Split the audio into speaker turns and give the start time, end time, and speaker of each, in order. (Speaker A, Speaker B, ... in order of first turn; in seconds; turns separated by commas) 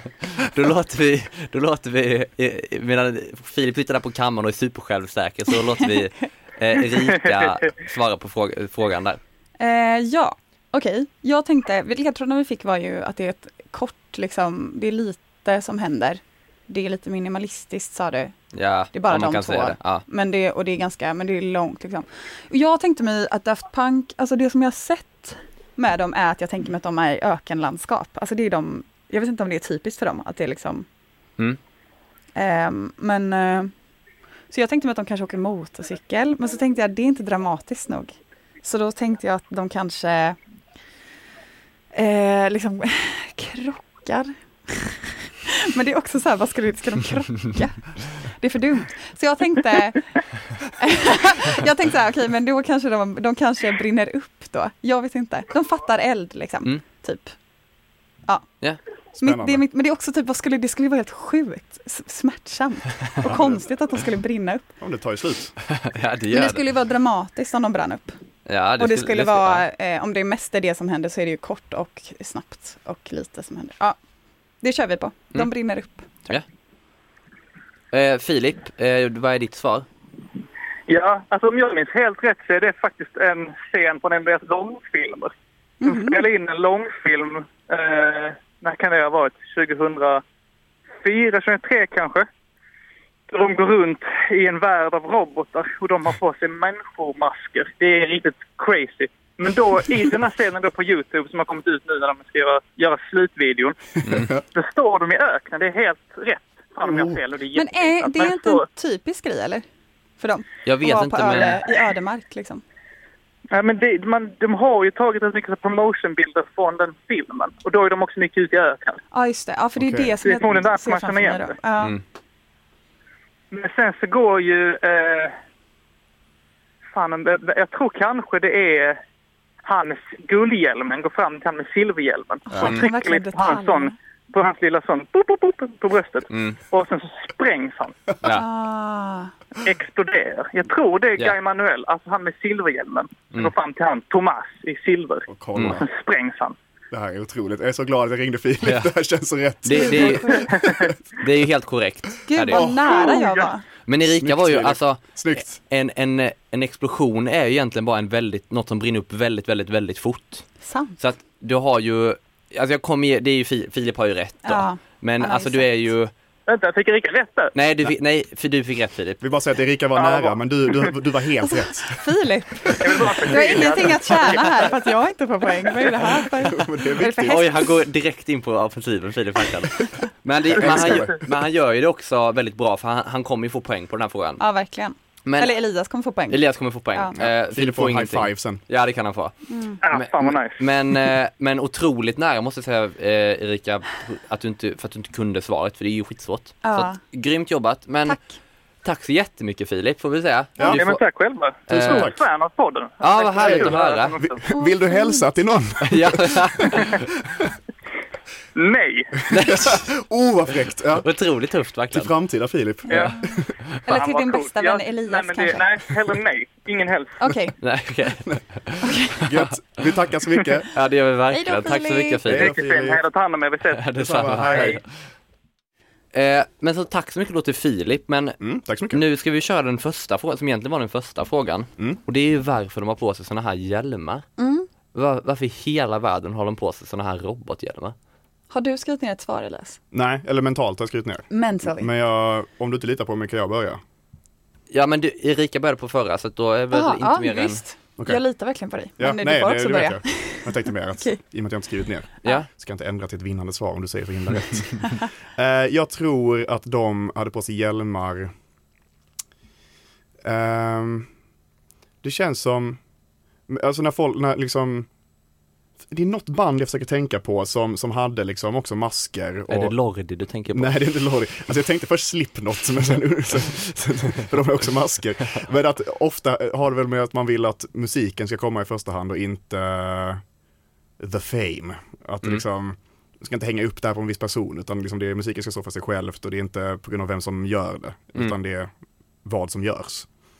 Speaker A: 0.3-9.2, Speaker B: 7.1-7.5, Speaker C: 9.6-18.3, Speaker A: 18.5-20.0, Speaker C: 18.9-30.9, Speaker C: 32.4-33.7, Speaker C: 34.5-40.4, Speaker C: 41.9-50.1, Speaker C: 50.8-57.3, Speaker C: 59.1-64.7, Speaker D: 59.2-59.6, Speaker D: 63.2-63.6, Speaker D: 64.8-65.5, Speaker A: 65.7-66.6, Speaker C: 66.3-68.2, Speaker A: 68.5-69.6, Speaker C: 68.8-74.0, Speaker C: 74.6-76.3, Speaker A: 77.9-79.8, Speaker B: 80.9-85.3, Speaker C: 85.8-86.2, Speaker B: 85.8-90.2, Speaker B: 91.0-92.3, Speaker B: 93.3-103.8, Speaker A: 104.0-104.3, Speaker D: 104.1-104.4, Speaker B: 104.5-108.6, Speaker D: 106.8-107.2, Speaker C: 107.5-109.6, Speaker C: 110.2-112.6, Speaker A: 110.7-111.6, Speaker B: 113.5-119.0, Speaker C: 119.1-122.0, Speaker D: 119.8-120.1, Speaker B: 120.2-121.5, Speaker B: 123.5-125.3, Speaker B: 126.9-129.0, Speaker B: 129.6-138.0, Speaker C: 132.5-133.9, Speaker A: 136.3-136.6, Speaker C: 138.3-139.3, Speaker B: 139.6-146.6, Speaker D: 145.3-145.8, Speaker A: 145.6-145.8, Speaker D: 146.9-150.9, Speaker A: 148.6-148.9, Speaker A: 149.6-150.5, Speaker B: 150.3-150.9, Speaker A: 151.2-152.7, Speaker C: 152.3-153.6, Speaker D: 152.5-153.1, Speaker B: 152.9-153.5, Speaker A: 153.8-160.5, Speaker D: 154.1-155.6, Speaker C: 160.6-160.9, Speaker A: 161.0-166.1, Speaker C: 164.4-165.7, Speaker B: 166.5-167.5, Speaker A: 167.5-169.2, Speaker D: 169.2-172.0, Speaker B: 169.9-170.9, Speaker C: 171.4-177.7, Speaker D: 172.6-173.1, Speaker B: 172.8-174.8, Speaker D: 176.4-177.7, Speaker A: 177.2-184.4, Speaker D: 180.5-181.2, Speaker B: 180.6-181.1, Speaker C: 184.4-186.4, Speaker A: 185.2-185.5, Speaker A: 186.3-189.3, Speaker D: 187.2-188.6, Speaker C: 189.5-189.8, Speaker B: 189.8-190.6, Speaker A: 189.9-198.2, Speaker C: 196.6-197.0, Speaker C: 198.1-198.3, Speaker A: 198.8-201.0, Speaker B: 200.7-204.4, Speaker A: 201.7-202.1, Speaker D: 201.7-202.2, Speaker A: 203.0-204.2, Speaker D: 203.4-203.7, Speaker D: 204.2-207.5, Speaker C: 204.5-205.2, Speaker A: 205.8-207.0, Speaker B: 208.6-209.2, Speaker A: 209.3-209.8, Speaker D: 209.3-211.1, Speaker A: 211.0-212.1, Speaker D: 211.9-213.5, Speaker C: 213.8-215.6, Speaker B: 213.9-217.2, Speaker C: 217.2-217.6, Speaker A: 217.6-219.8, Speaker C: 218.8-219.2, Speaker D: 219.2-220.7, Speaker A: 220.7-222.5, Speaker C: 221.3-222.2, Speaker D: 222.2-223.0, Speaker B: 222.3-224.8, Speaker A: 223.7-224.8, Speaker D: 224.0-224.8, Speaker A: 226.1-228.4, Speaker D: 228.4-229.0, Speaker A: 228.9-234.2, Speaker C: 234.4-234.7, Speaker A: 234.9-237.9, Speaker C: 238.5-239.8, Speaker D: 239.9-243.8, Speaker C: 241.3-241.9, Speaker A: 244.7-247.6, Speaker C: 246.7-251.2, Speaker D: 249.0-258.3, Speaker D: 260.2-261.1, Speaker D: 262.0-262.8, Speaker D: 263.5-264.9, Speaker D: 265.9-269.7, Speaker A: 269.5-270.8, Speaker D: 270.5-280.2, Speaker D: 281.0-288.7, Speaker D: 289.2-290.1